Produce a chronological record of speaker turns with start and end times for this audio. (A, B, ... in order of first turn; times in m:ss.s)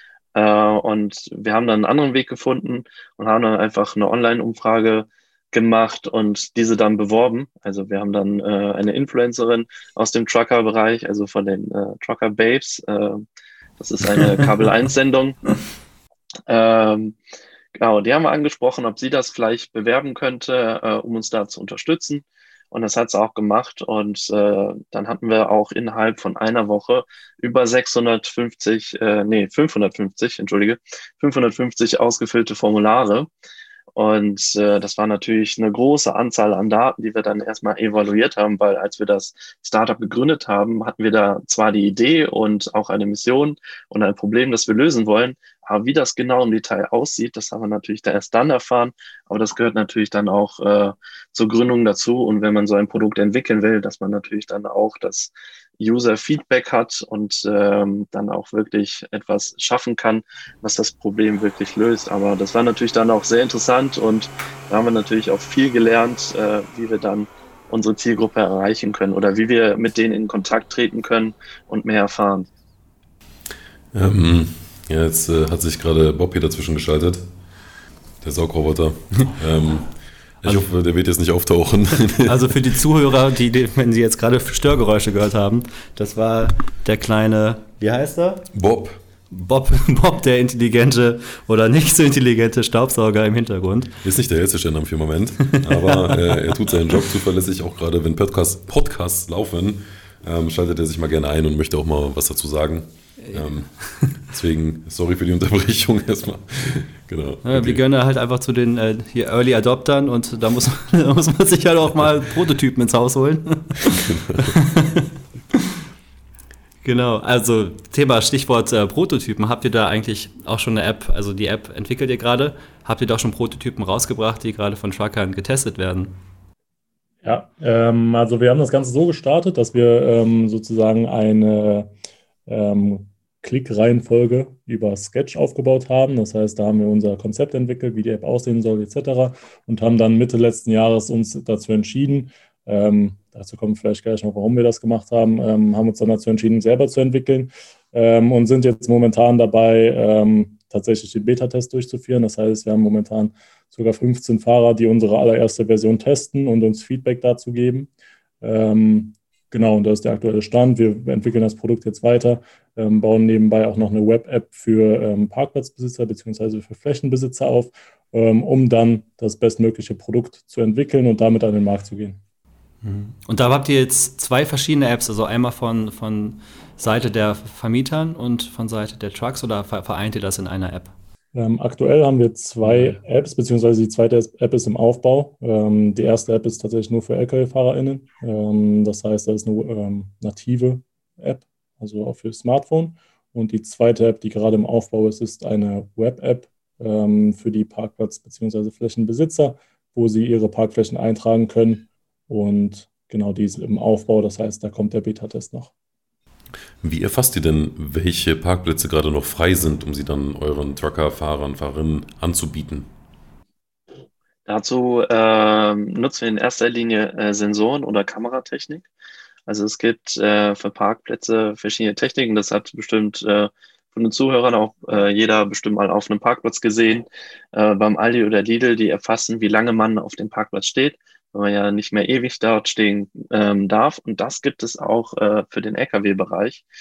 0:00.4-0:13.2 A
0:13.8-0:15.4 A
0:16.5-0:17.2 A
0:17.8-0:33.3 A
0:34.0-1:12.5 A
1:13.9-1:17.2 B
1:18.2-1:22.4 B
1:22.2-1:28.5 C
1:28.5-1:29.0 B
1:29.3-1:34.0 C
1:34.0-1:47.8 B
1:35.6-1:36.5 C
1:43.2-1:44.1 C
1:47.4-1:55.0 C
1:54.0-1:54.5 B
1:56.8-2:06.1 C
2:07.2-2:11.9 D
2:12.5-2:52.2 D
2:52.8-3:00.9 C
3:01.3-3:25.7 D
3:02.7-3:03.0 C
3:26.8-3:32.9 B
3:34.5-3:38.9 A
3:39.5-3:56.6 A